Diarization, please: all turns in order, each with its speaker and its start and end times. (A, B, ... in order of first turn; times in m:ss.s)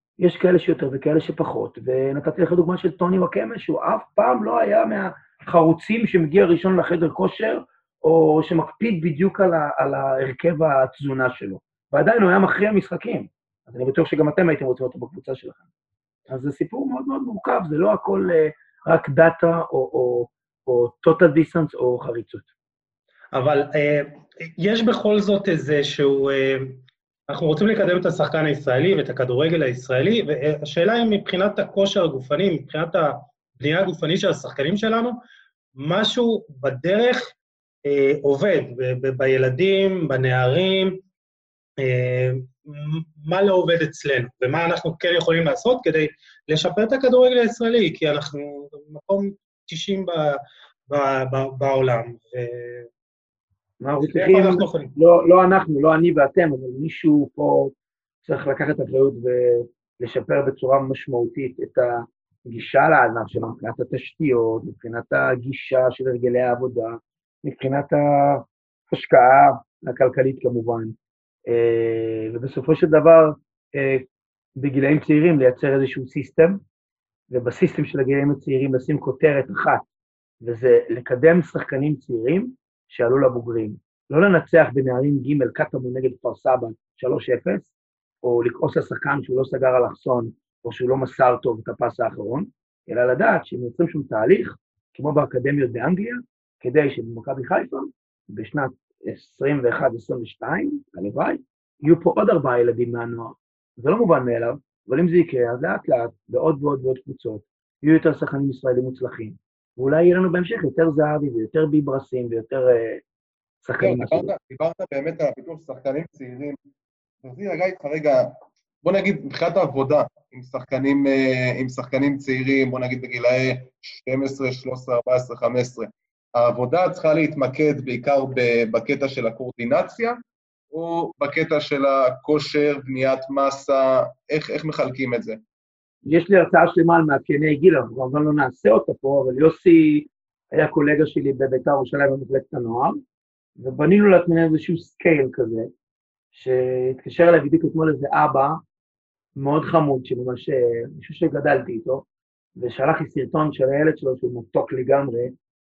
0:00.2-0:15.6 A
0:16.3-0:22.5 A
0:23.3-0:35.2 B
0:35.8-0:37.3 B
0:37.8-0:41.0 B
0:41.8-0:52.9 B
0:53.8-0:57.7 A
0:54.0-0:54.9 B
0:58.2-1:10.9 A
1:11.5-1:14.0 A
1:14.6-1:16.6 A
1:17.3-1:19.8 A
1:20.4-1:53.0 A
1:53.6-1:54.3 A
1:53.8-1:56.6 C
1:57.2-2:10.2 C
2:10.7-2:15.4 C
2:16.0-2:23.0 A
2:23.6-2:25.7 A
2:26.3-2:28.6 A
2:29.4-2:32.0 A
2:32.6-2:35.3 A